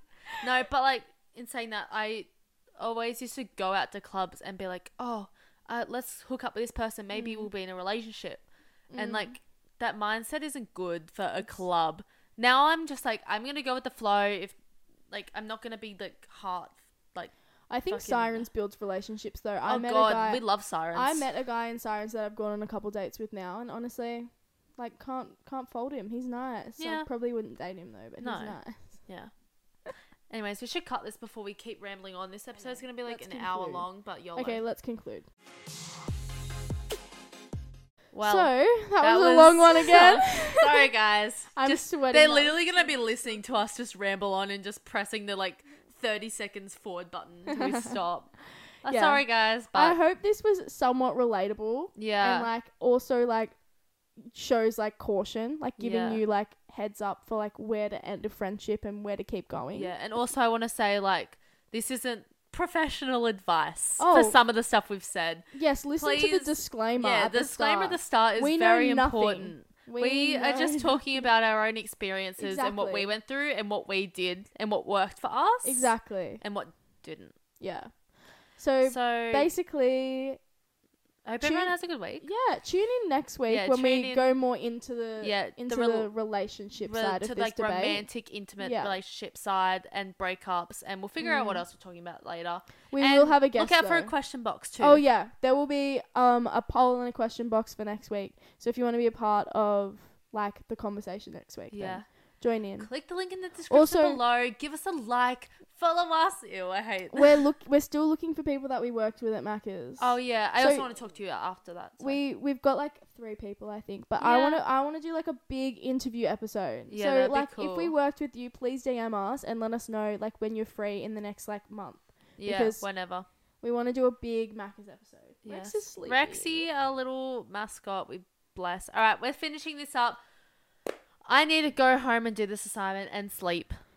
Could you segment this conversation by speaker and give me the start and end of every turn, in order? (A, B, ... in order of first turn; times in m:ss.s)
0:00.4-0:08.4 A
0:07.1-0:07.5 B
0:08.9-0:09.3 B
0:09.0-0:14.6 A
0:15.1-0:17.3 A
0:17.7-0:28.9 B
0:17.9-0:18.5 A
0:19.6-0:21.2 A
0:26.8-0:27.1 A
0:28.2-0:29.3 A
0:30.3-0:34.6 A
0:33.0-0:35.2 B
0:38.1-0:50.0 A
0:38.2-0:40.9 B
0:41.5-0:42.6 B
0:47.5-0:47.9 B
0:48.8-0:53.5 B
0:52.0-0:52.5 A
0:54.2-0:59.9 B
0:55.8-0:56.2 A
0:59.7-1:17.3 A
1:04.0-1:04.4 B
1:05.5-1:11.2 B
1:12.4-1:13.1 B
1:15.6-1:16.4 B
1:17.6-1:20.4 B
1:18.8-1:19.5 A
1:21.2-1:22.2 A
1:21.4-1:29.0 B
1:23.5-1:24.3 A
1:25.2-1:26.1 A
1:26.8-1:35.0 A
1:31.2-1:31.6 B
1:32.9-1:34.1 B
1:34.8-1:42.9 B
1:41.7-1:42.0 A
1:42.8-1:47.4 A
1:43.7-1:44.2 B
1:47.1-1:50.9 B
1:50.0-1:52.2 A
1:52.0-2:02.8 B
1:54.2-1:54.6 A
1:56.9-1:57.9 A
2:02.4-2:03.3 A
2:03.6-2:06.6 B
2:05.4-2:10.2 A
2:11.2-2:13.8 A